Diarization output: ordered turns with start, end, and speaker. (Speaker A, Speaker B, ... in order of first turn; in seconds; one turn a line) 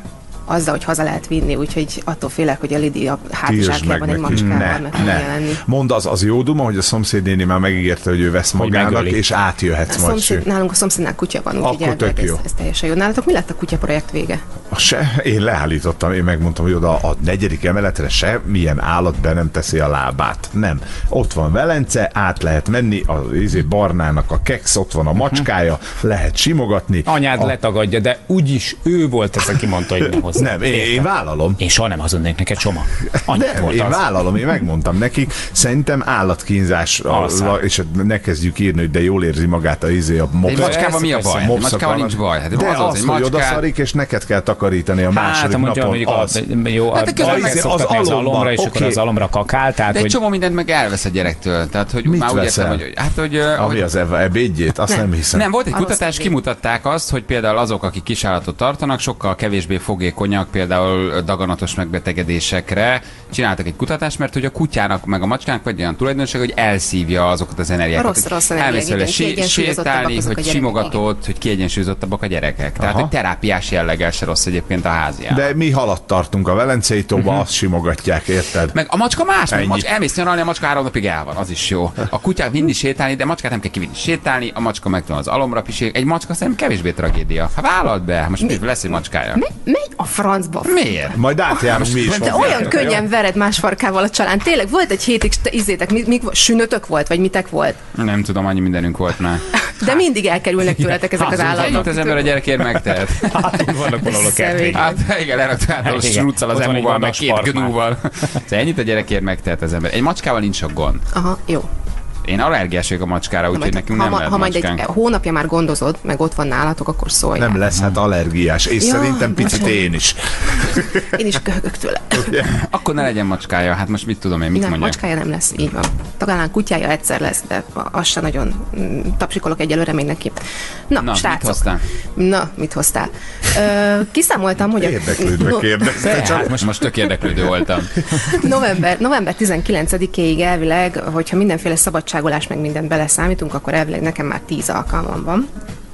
Speaker A: 0.5-5.6
Speaker B: 3.5-10.4
Speaker C: 4.3-4.7
Speaker C: 8.6-9.2
Speaker A: 9.9-14.4
Speaker B: 11.6-12.4
Speaker B: 14.7-27.5
Speaker C: 27.1-31.1
Speaker B: 30.3-31.6
Speaker C: 31.6-34.0
Speaker B: 33.3-46.4
Speaker C: 37.1-37.6
Speaker D: 40.4-43.6
Speaker C: 40.5-41.5
Speaker C: 45.1-50.2
Speaker D: 46.9-47.6
Speaker B: 47.1-49.0
Speaker D: 49.9-53.8
Speaker B: 52.0-52.8
Speaker B: 53.6-55.5
Speaker D: 55.3-75.5
Speaker A: 55.7-56.3
Speaker A: 67.9-71.0
Speaker B: 72.8-73.1
Speaker B: 75.3-78.8
Speaker D: 77.2-77.4
Speaker D: 78.7-89.4
Speaker B: 79.5-79.9
Speaker A: 89.3-91.2
Speaker D: 90.6-91.1
Speaker B: 91.1-93.0
Speaker D: 91.7-92.9
Speaker A: 92.0-97.8
Speaker D: 98.0-99.5
Speaker A: 99.6-102.5
Speaker D: 101.2-103.2
Speaker C: 103.2-104.9
Speaker A: 103.4-104.9
Speaker D: 104.7-111.0
Speaker C: 105.8-107.7
Speaker A: 111.1-111.7
Speaker D: 112.2-114.8
Speaker A: 113.5-117.6
Speaker B: 117.4-121.0
Speaker A: 118.8-119.9
Speaker A: 121.1-122.3
Speaker B: 122.2-122.5
Speaker D: 122.5-125.0
Speaker A: 124.5-135.9
Speaker D: 131.0-131.8
Speaker B: 134.8-136.7
Speaker C: 136.0-136.6
Speaker D: 136.6-137.9
Speaker A: 138.3-145.5